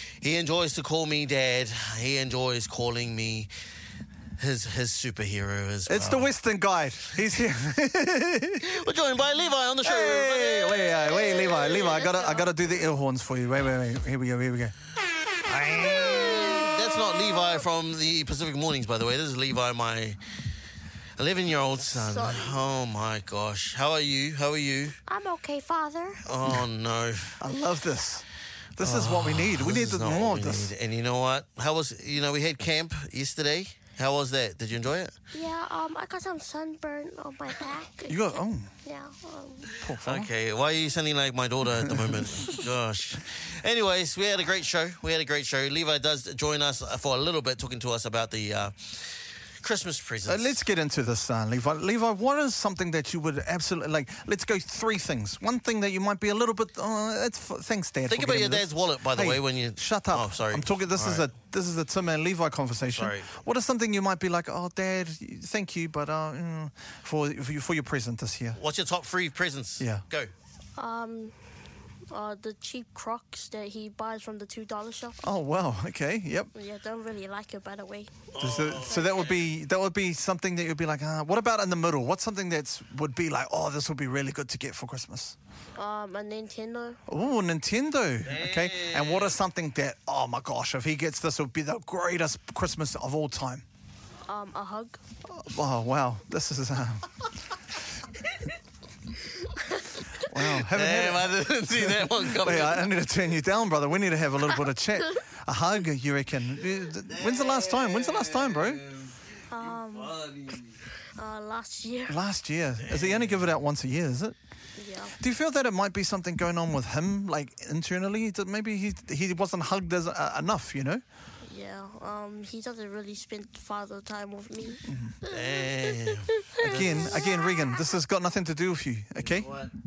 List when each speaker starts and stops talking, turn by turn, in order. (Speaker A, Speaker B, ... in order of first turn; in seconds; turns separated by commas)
Speaker A: 0.2-3.5, Speaker A: 4.4-6.3, Speaker B: 5.8-8.6, Speaker A: 8.6-11.1, Speaker B: 9.8-14.7, Speaker C: 11.1-12.6, Speaker A: 15.5-20.2, Speaker B: 15.5-16.6, Speaker A: 21.2-25.0, Speaker C: 21.8-22.6, Speaker C: 25.1-26.2, Speaker A: 26.2-27.4, Speaker B: 27.4-28.2, Speaker B: 28.8-30.7, Speaker A: 28.8-35.1, Speaker C: 35.3-38.2, Speaker B: 38.1-38.7, Speaker C: 38.8-39.8, Speaker B: 39.8-40.3, Speaker A: 40.0-50.6, Speaker B: 41.9-42.4, Speaker B: 50.2-68.6, Speaker A: 58.1-61.3, Speaker A: 62.9-63.3, Speaker A: 68.5-70.3, Speaker B: 69.8-70.0, Speaker C: 70.8-71.3, Speaker C: 72.1-75.2, Speaker B: 75.2-76.5, Speaker C: 76.5-78.2, Speaker A: 78.3-79.5, Speaker B: 78.4-85.4, Speaker C: 85.8-87.0, Speaker B: 87.1-93.6, Speaker A: 88.2-89.3, Speaker C: 94.3-95.0, Speaker B: 95.3-97.3, Speaker B: 100.2-108.8, Speaker A: 100.6-102.9, Speaker A: 107.0-110.8, Speaker C: 109.5-110.2, Speaker C: 111.2-112.2, Speaker B: 112.1-114.4, Speaker A: 112.8-113.5, Speaker C: 114.8-115.1, Speaker B: 115.2-121.0, Speaker C: 121.4-127.7, Speaker B: 124.8-125.1, Speaker A: 125.3-127.2, Speaker B: 126.6-129.5, Speaker A: 129.2-129.7